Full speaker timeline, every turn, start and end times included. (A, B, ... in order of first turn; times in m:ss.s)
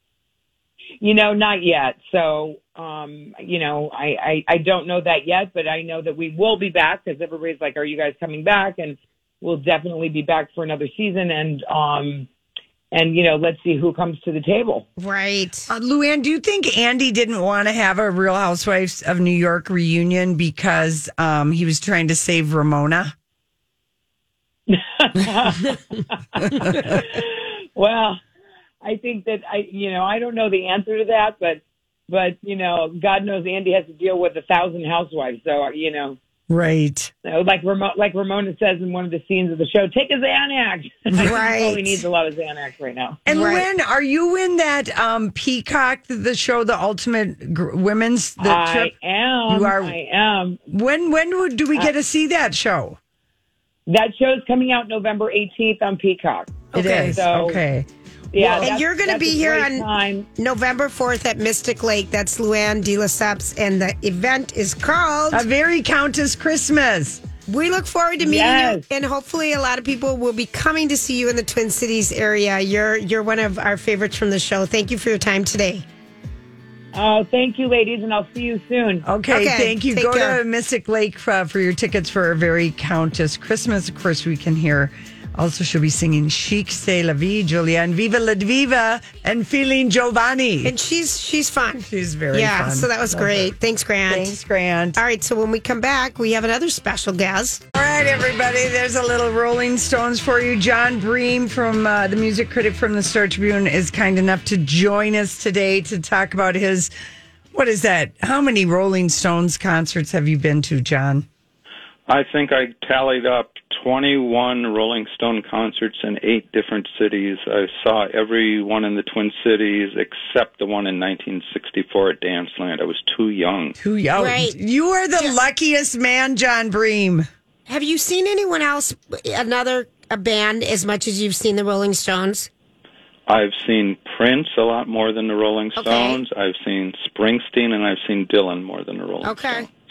0:01.0-0:12.3 A
0:12.9-0:14.9 A
0:15.0-0:15.7 B
0:15.7-0:23.1 C
0:24.7-0:28.2 A
0:26.5-0:27.0 C
0:28.8-0:36.2 A
0:36.5-0:37.1 C
0:37.2-0:43.2 A
0:41.2-0:41.9 B
0:43.3-0:48.9 C
0:43.3-0:43.6 B
0:48.4-0:50.6 A
0:49.5-0:50.0 C
0:50.7-0:53.0 C
0:53.9-0:57.6 A
0:56.7-0:57.2 B
0:56.7-0:57.9 C
0:58.3-1:00.3 A
0:58.4-0:58.7 C
0:58.4-1:05.5 B
1:05.3-1:07.2 C
1:07.5-1:15.8 B
1:08.2-1:08.8 A
1:16.9-1:19.1 A
1:19.0-1:30.7 C
1:19.3-1:20.4 B
1:30.6-1:34.4 B
1:31.9-1:33.5 C
1:34.1-1:35.0 C
1:35.0-1:37.6 B
1:37.7-1:46.9 C
1:47.5-1:51.3 C
1:52.1-2:03.8 D
2:03.8-2:07.3 C
2:04.2-2:04.6 B
2:07.7-2:12.5 B
2:13.3-2:19.7 D
2:15.8-2:16.2 B
2:19.2-2:19.7 B